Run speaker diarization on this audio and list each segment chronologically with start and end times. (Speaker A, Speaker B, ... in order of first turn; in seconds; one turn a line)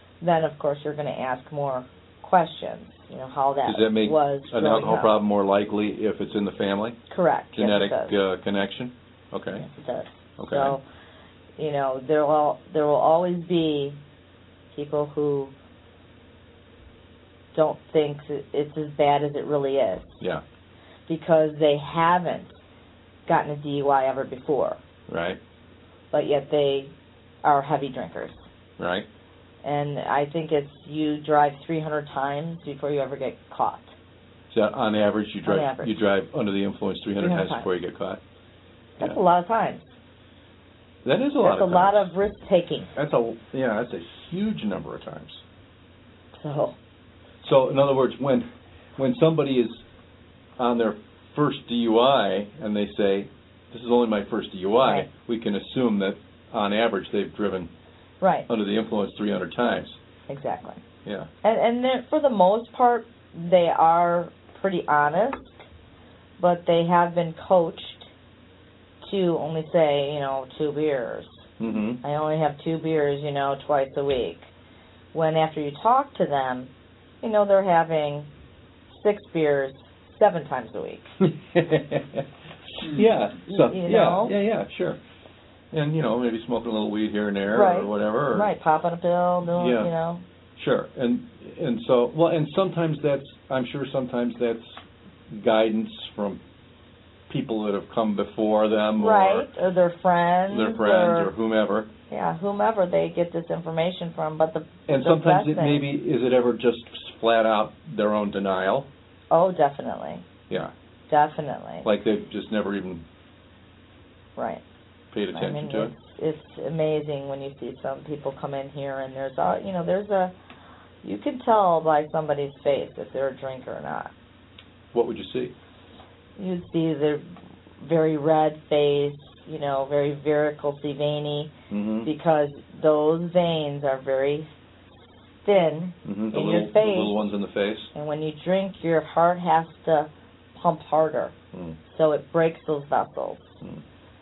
Speaker A: 0.2-5.1
Speaker B: 3.6-7.0
Speaker A: 7.1-8.2
Speaker B: 7.5-9.6
Speaker A: 9.5-10.8
Speaker B: 10.4-10.8
Speaker A: 11.6-14.0
Speaker A: 14.7-15.5
Speaker A: 17.5-20.2
Speaker A: 21.1-22.6
Speaker A: 23.3-24.8
Speaker B: 25.1-25.4
Speaker A: 26.1-26.9
Speaker A: 27.4-28.5
Speaker B: 28.8-29.1
Speaker A: 29.6-33.9
Speaker B: 34.5-38.2
Speaker A: 35.5-35.9
Speaker A: 37.2-37.7
Speaker A: 39.0-39.9
Speaker B: 41.0-42.1
Speaker A: 41.4-42.9
Speaker B: 42.9-45.4
Speaker A: 46.3-46.7
Speaker B: 47.4-48.5
Speaker B: 49.0-49.8
Speaker B: 50.6-57.7
Speaker A: 54.8-55.1
Speaker A: 58.2-58.5
Speaker B: 58.5-60.0
Speaker A: 60.3-60.8
Speaker A: 61.4-65.7
Speaker A: 66.4-68.1
Speaker A: 69.0-71.5
Speaker B: 71.6-72.0
Speaker A: 72.0-74.5
Speaker A: 75.1-76.7
Speaker A: 77.2-78.3
Speaker A: 78.9-81.1
Speaker B: 81.2-85.0
Speaker A: 83.5-84.3
Speaker B: 85.7-88.5
Speaker A: 87.5-90.2
Speaker B: 89.5-89.9
Speaker B: 90.5-96.4
Speaker B: 97.3-99.5
Speaker A: 99.0-101.3
Speaker B: 100.5-101.9
Speaker A: 102.1-105.8
Speaker B: 104.9-108.9
Speaker A: 109.3-110.2
Speaker A: 111.1-111.9
Speaker B: 111.8-113.0
Speaker A: 114.4-114.6
Speaker B: 115.1-115.9
Speaker A: 115.3-120.3
Speaker A: 121.0-124.1
Speaker B: 124.9-125.5
Speaker A: 126.4-127.2
Speaker A: 127.8-131.5
Speaker B: 131.7-132.1
Speaker A: 132.0-137.3
Speaker B: 136.0-137.9
Speaker A: 137.9-141.3
Speaker A: 141.9-143.6